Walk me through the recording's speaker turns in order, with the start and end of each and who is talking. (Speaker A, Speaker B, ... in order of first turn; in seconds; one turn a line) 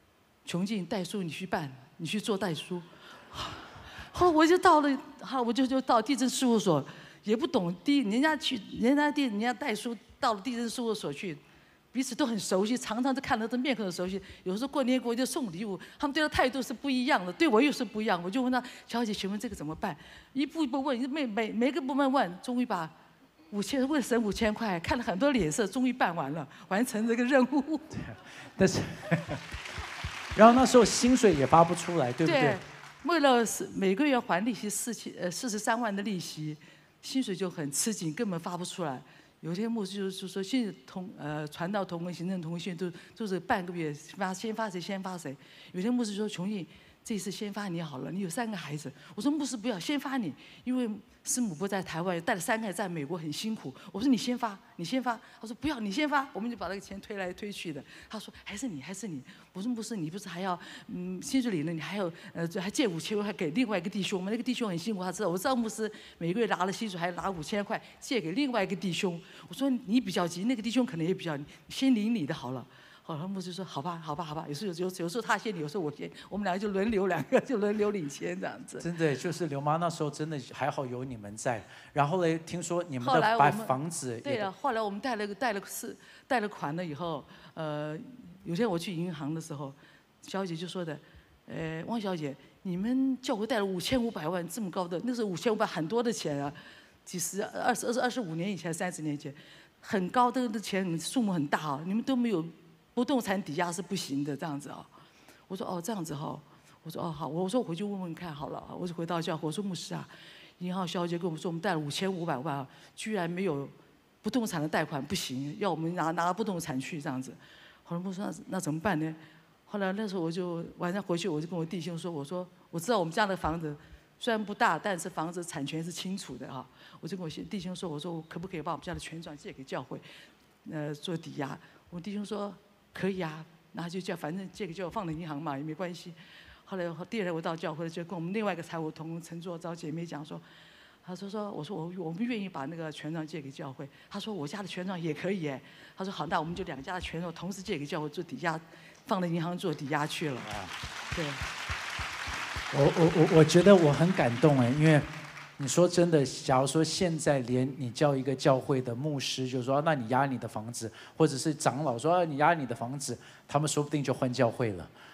Speaker A: 0.5-11.4
Speaker A: 11.9-22.9
Speaker A: 23.5-27.9
Speaker B: 28.0-29.4
Speaker B: 30.4-32.6
Speaker A: 32.2-78.9
Speaker B: 78.8-84.5
Speaker A: 83.0-104.9
Speaker A: 105.5-130.0
Speaker A: 130.7-140.4
Speaker A: 141.1-150.5
Speaker B: 150.4-150.8
Speaker A: 151.1-151.4
Speaker B: 152.7-164.9